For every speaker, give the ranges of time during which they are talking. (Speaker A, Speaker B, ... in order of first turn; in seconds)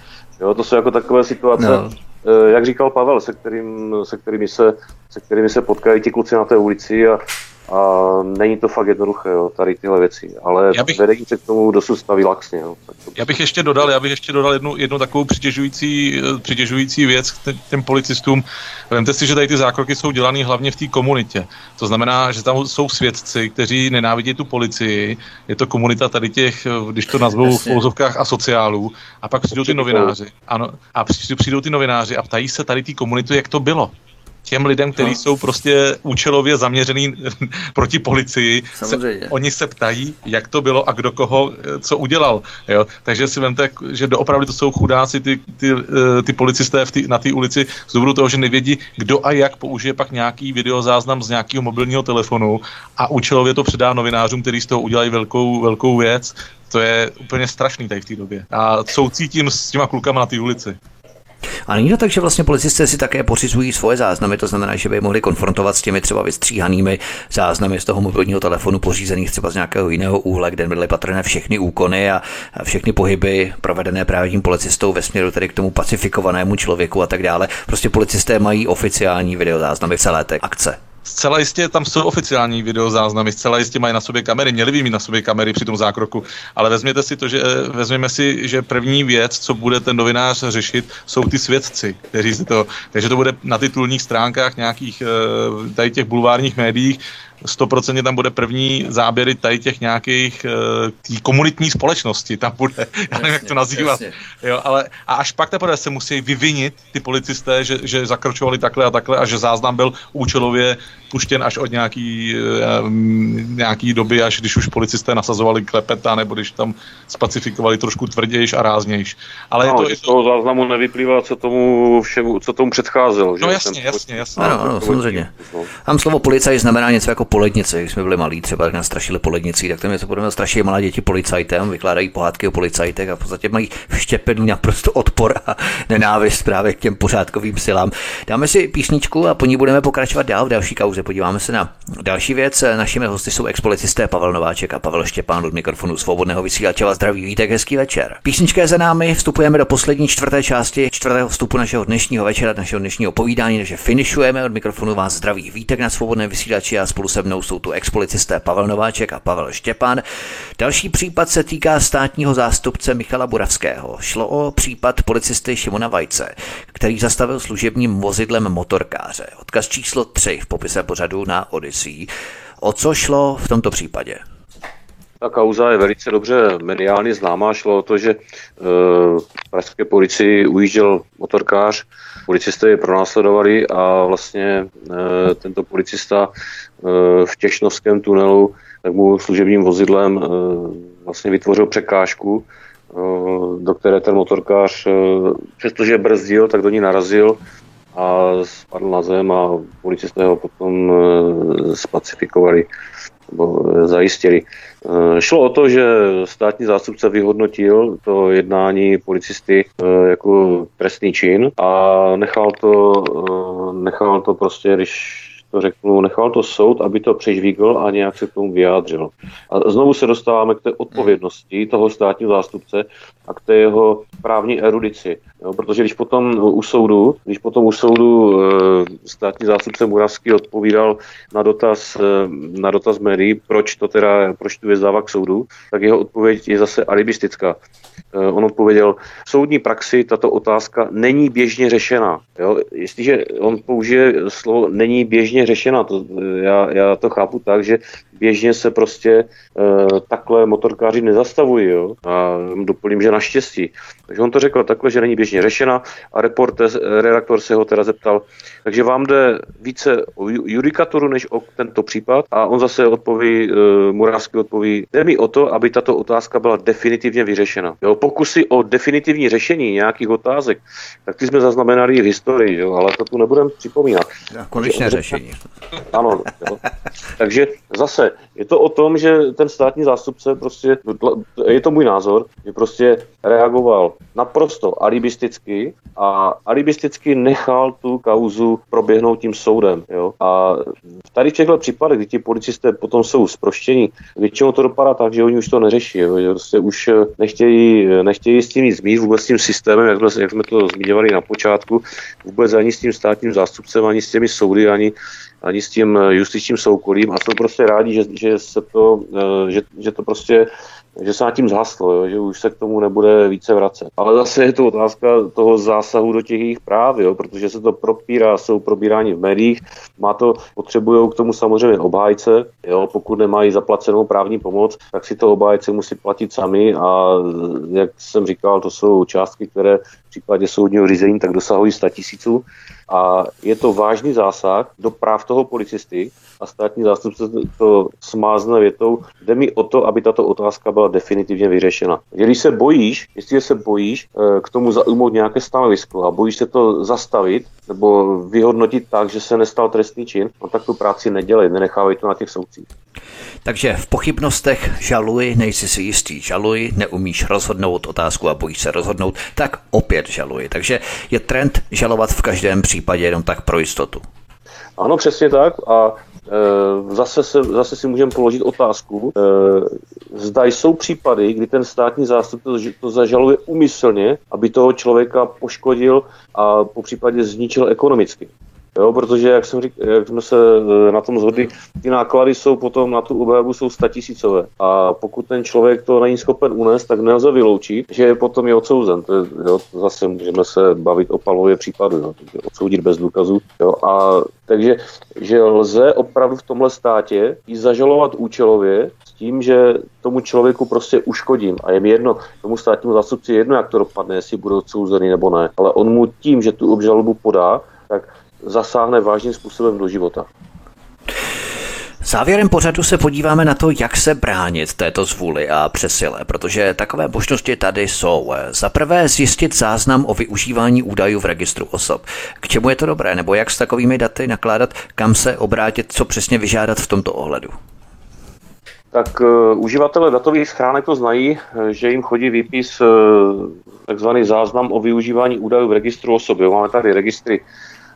Speaker A: 0.4-13.3, 29.5-30.1, 119.6-125.7, 175.2-186.3, 186.8-197.4, 197.9-202.7, 203.3-237.6, 238.1-275.2, 275.8-276.6, 277.2-352.7, 364.8-410.3, 428.9-437.4
Speaker B: 1.6-1.9, 27.4-27.9, 38.8-39.3, 61.7-80.8, 103.1-104.2, 124.4-125.3, 125.8-160.0, 160.6-172.1, 172.6-174.2, 274.3-275.4, 353.4-364.0, 412.0-427.6
Speaker C: 13.2-33.9, 34.5-60.8, 81.1-120.1, 123.4-124.5